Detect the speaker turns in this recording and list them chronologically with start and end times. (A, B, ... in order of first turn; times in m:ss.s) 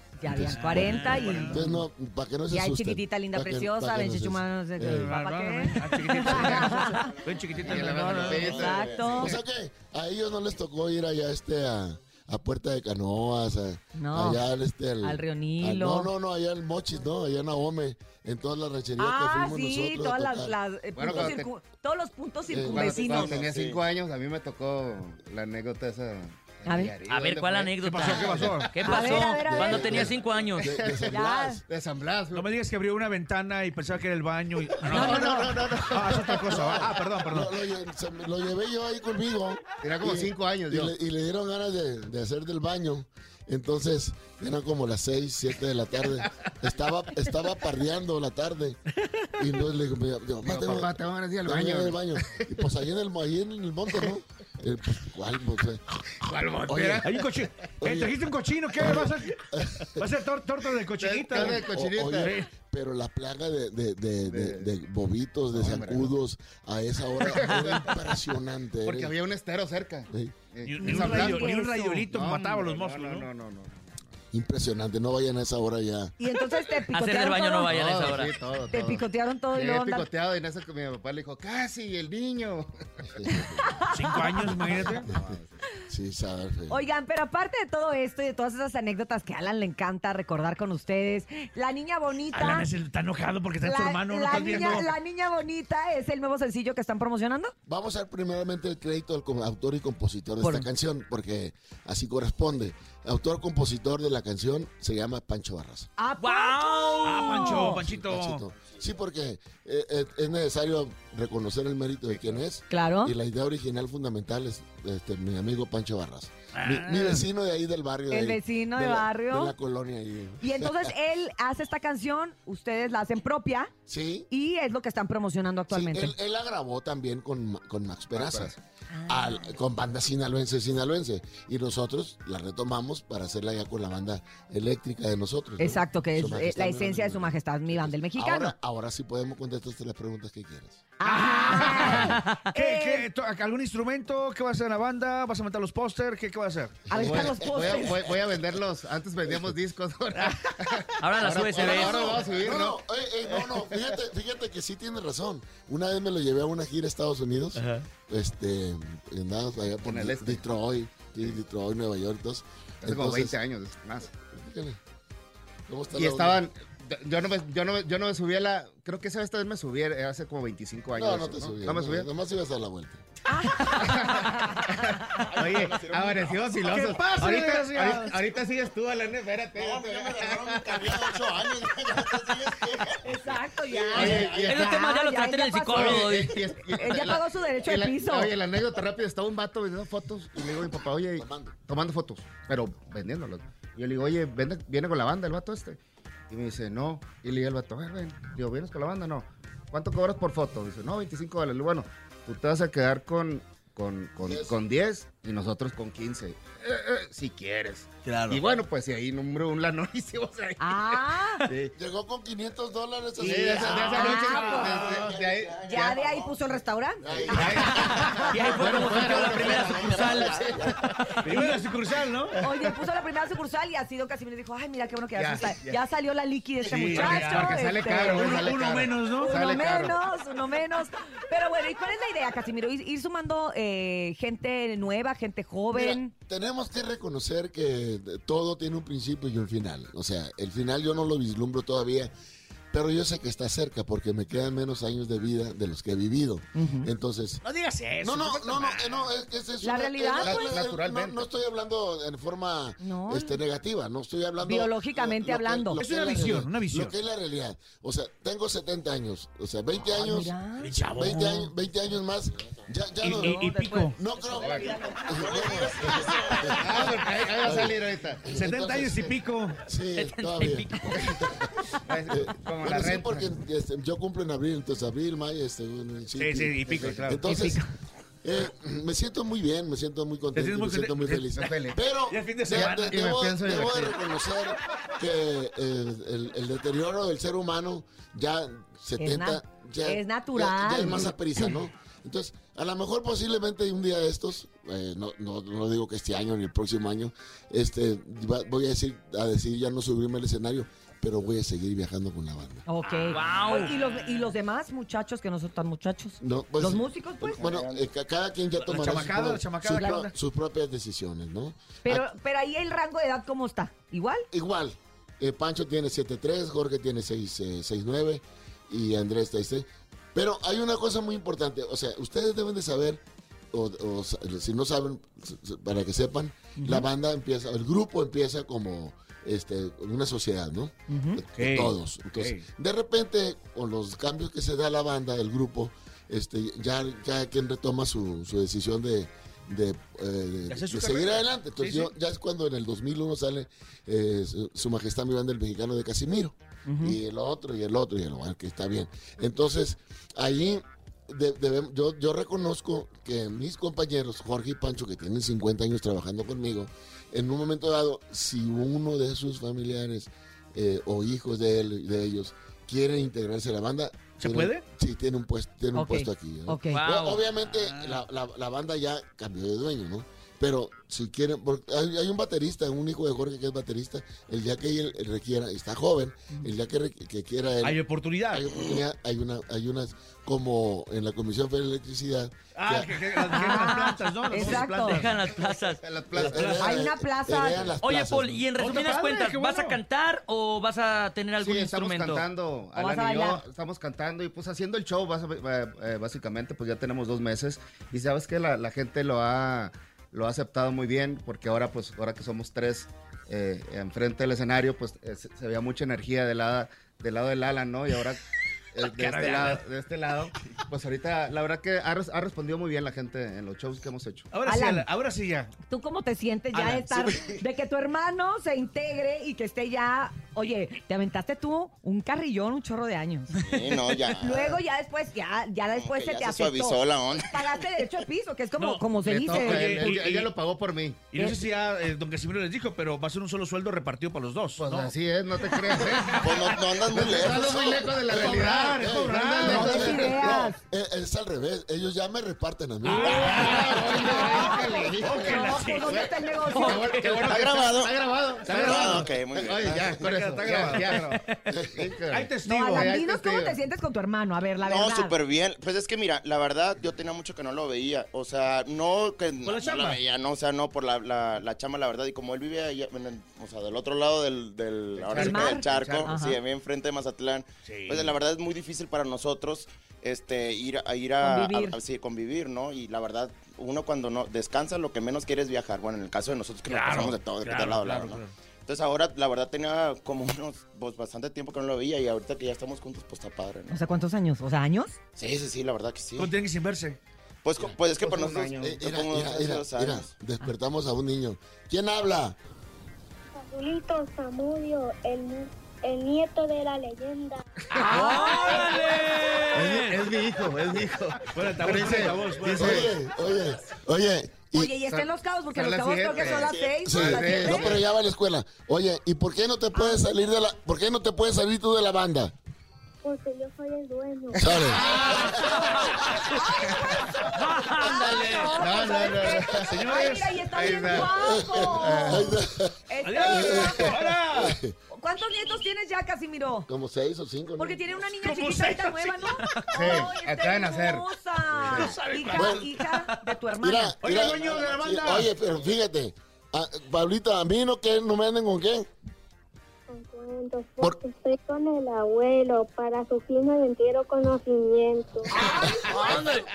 0:00.2-0:01.8 A
0:00.3-0:05.1 B
0:00.3-0:01.8 C
0:02.5-0:07.1 A
0:04.8-0:08.7 C
0:07.6-0:09.0 D
0:07.6-0:21.4 B
0:08.5-0:09.4 A
0:14.0-0:14.5 A
0:15.0-0:16.1 A
0:19.0-0:23.4 A
0:21.0-0:21.5 D
0:22.5-0:23.6 B
0:22.7-0:28.7 D
0:23.1-0:23.8 E
0:26.7-0:27.0 A
0:27.1-0:30.7 F
0:27.8-0:28.8 C
0:28.8-0:29.9 A
0:29.0-0:31.6 B
0:29.9-0:32.5 D
0:31.1-0:31.6 A
0:32.3-0:35.4 C
0:34.9-0:35.5 A
0:34.9-0:37.0 D
0:35.9-0:37.5 C
0:36.5-0:48.8 B
0:39.8-0:40.9 D
0:49.4-0:55.8 B
0:50.4-0:52.5 D
0:56.2-0:57.2 D
0:56.6-0:57.0 B
0:57.0-1:02.5 C
0:57.8-0:58.2 B
0:58.8-1:00.0 B
1:01.0-1:02.3 D
1:01.3-1:09.1 B
1:04.3-1:04.7 D
1:05.5-1:06.1 D
1:07.2-1:07.6 D
1:08.8-1:11.5 D
1:10.1-1:10.5 B
1:10.6-1:13.3 C
1:10.8-1:12.1 A
1:12.0-1:14.0 D
1:14.3-1:16.1 B
1:16.2-1:17.7 A
1:16.9-1:18.3 F
1:17.6-1:22.8 D
1:18.7-1:20.1 A
1:23.2-1:23.5 B
1:23.6-1:24.5 A
1:23.9-1:25.1 C
1:24.7-1:25.6 D
1:25.9-1:26.8 B
1:26.7-1:32.7 A
1:32.3-1:35.0 C
1:33.6-1:37.5 A
1:37.7-1:45.9 B
1:40.4-1:40.7 A
1:46.0-1:47.8 A
1:46.2-1:47.4 F
1:47.0-1:48.5 C
1:47.8-2:00.9 B
1:52.1-1:52.4 D
1:52.7-1:53.2 A
1:56.5-1:57.2 C
1:58.1-1:59.6 A
2:00.4-2:03.7 A
2:03.9-2:04.3 B
2:04.3-2:06.2 A
2:05.7-2:08.5 B
2:08.1-2:08.6 D
2:08.9-2:09.5 A
2:09.1-2:21.0 B
2:15.6-2:18.6 A
2:21.0-2:23.1 A
2:21.0-2:22.0 C
2:22.5-2:26.8 C
2:26.9-2:28.0 A
2:26.9-2:28.4 B
2:27.0-2:34.0 D
2:31.0-2:32.2 F
2:31.5-2:43.4 B
2:39.8-2:40.4 D
2:42.8-2:44.1 D
2:44.3-2:44.8 B
2:45.7-2:46.4 B
2:46.0-2:52.1 D
2:50.9-2:53.0 B
2:53.3-2:54.6 A
2:53.8-3:01.2 D
2:55.4-2:56.6 B
2:56.6-2:58.2 C
2:59.6-3:01.2 E
3:00.2-3:04.5 B
3:03.0-3:08.3 A
3:03.9-3:04.7 D
3:04.4-3:06.3 F
3:05.7-3:15.8 D
3:10.4-3:11.6 B
3:16.3-3:31.7 D
3:24.2-3:24.6 B
3:28.1-3:28.4 C
3:30.6-3:31.5 A
3:31.7-3:37.9 B
3:33.2-3:35.2 C
3:33.2-3:36.0 D
3:33.9-3:34.9 A
3:35.6-3:38.3 A
3:37.2-3:40.9 D
3:38.1-3:40.4 F
3:38.6-3:40.8 B
3:41.2-3:42.4 C
3:41.2-3:41.6 A
3:42.4-3:48.6 A
3:45.2-3:45.8 D
3:46.7-3:49.3 C
3:46.8-3:50.0 D
3:49.2-3:56.1 A
3:55.7-4:02.1 B
4:02.7-4:07.4 B
4:06.6-4:06.9 A
4:07.4-4:09.1 C
4:08.0-4:23.4 B
4:09.6-4:10.6 A
4:10.2-4:11.2 D
4:12.8-4:13.4 A
4:14.4-4:15.8 A
4:15.8-4:17.0 C
4:19.8-4:20.7 A
4:20.6-4:21.5 C
4:23.0-4:24.0 C
4:23.1-4:25.7 A
4:23.2-4:23.8 F
4:23.9-4:31.4 B
4:24.3-4:24.8 D
4:25.4-4:26.1 E
4:26.5-4:28.2 D
4:28.3-4:29.6 C
4:30.0-4:31.1 F
4:31.9-4:33.3 D
4:32.1-4:37.6 B
4:36.2-4:37.4 C
4:36.7-4:37.2 D
4:37.2-4:37.7 A
4:38.2-5:02.6 B
4:40.3-4:43.0 C
4:41.4-4:41.8 D
4:42.6-4:44.0 D
4:49.0-4:51.1 A
5:02.7-5:07.4 A
5:02.8-5:04.3 F
5:06.2-5:12.1 B
5:08.6-5:10.1 C
5:09.7-5:10.0 A
5:11.8-5:14.3 A
5:14.3-5:23.0 B
5:23.5-6:23.0 B
5:26.6-5:26.9 A
5:30.9-5:31.2 A
5:31.4-5:32.5 C
5:40.5-5:41.9 C
5:46.7-5:47.0 A
6:04.2-6:04.7 C
6:05.7-6:06.8 A
6:06.7-6:07.2 F
6:07.5-6:08.0 C
6:17.6-6:18.5 C
6:22.6-6:25.5 C
6:23.3-6:25.0 A
6:24.8-6:25.8 F
6:25.7-6:26.6 D
6:26.1-6:28.5 B
6:26.2-6:26.7 C
6:26.6-6:27.7 A
6:27.8-6:32.2 F
6:28.6-6:29.8 C
6:31.4-6:48.2 D
6:32.8-6:33.4 A
6:48.7-6:54.3 D
6:48.8-6:49.6 C
6:54.3-6:55.5 C
6:54.4-6:54.9 A
6:55.7-7:03.3 A
6:56.5-6:57.4 C
7:03.4-7:04.6 E
7:04.1-7:10.0 A
7:05.7-7:07.5 E
7:08.6-7:10.3 C
7:09.0-7:11.1 D
7:11.1-7:14.9 C
7:11.2-7:11.4 A
7:14.6-7:16.2 D
7:15.6-7:16.2 C
7:16.2-7:23.5 B
7:16.9-7:20.5 D
7:17.0-7:17.3 E
7:18.1-7:20.1 C
7:19.4-7:20.6 A
7:22.8-7:26.2 C
7:23.0-7:26.0 D
7:23.4-7:26.9 A
7:26.6-7:27.3 F
7:26.6-7:31.1 D
7:26.9-7:27.7 C
7:27.2-7:27.9 E
7:28.5-7:29.1 C
7:28.5-7:30.0 E
7:29.7-7:31.2 C
7:31.1-7:31.4 F
7:31.7-7:33.6 D
7:32.1-7:32.9 C
7:32.4-7:35.1 A
7:34.6-8:03.8 E
7:39.4-7:40.0 C
7:45.0-7:46.1 D
7:45.2-7:46.4 A
7:47.6-7:48.2 C
7:51.2-7:51.8 A
7:56.7-7:58.3 C
8:03.7-8:05.0 A
8:05.2-8:06.3 E
8:06.2-8:07.0 C
8:07.4-8:10.1 E
8:07.9-8:08.7 D
8:08.5-8:12.4 B
8:13.3-8:17.4 G
8:17.7-8:19.8 F
8:17.9-8:18.4 A
8:18.0-8:19.0 C
8:19.5-8:22.9 D
8:19.6-8:20.0 C
8:21.3-8:22.9 C
8:22.4-8:24.7 B
8:24.5-8:27.8 A
8:24.8-8:27.8 D
8:26.3-8:26.7 E
8:26.8-8:32.3 B
8:29.7-8:30.0 A
8:33.0-8:35.1 G
8:34.4-8:34.8 B
8:34.5-8:35.3 D
8:34.8-8:35.4 C
8:36.4-8:44.0 A
8:37.4-8:38.0 F
8:37.9-8:38.6 C
8:38.5-8:41.2 D
8:39.7-8:40.5 C
8:41.3-8:42.7 B
8:41.8-8:42.3 D
8:43.0-8:44.6 C
8:43.3-8:44.8 B
8:44.9-8:46.7 A
8:46.7-8:48.1 B
8:47.6-8:54.0 A
8:48.2-8:49.4 C
8:49.7-8:51.1 D
8:51.7-8:52.0 D
8:51.7-8:52.9 C
8:52.3-8:52.6 B
8:53.6-8:58.9 B
8:54.0-8:55.4 C
8:59.9-9:05.5 G
9:05.3-9:06.3 A
9:05.9-9:06.5 F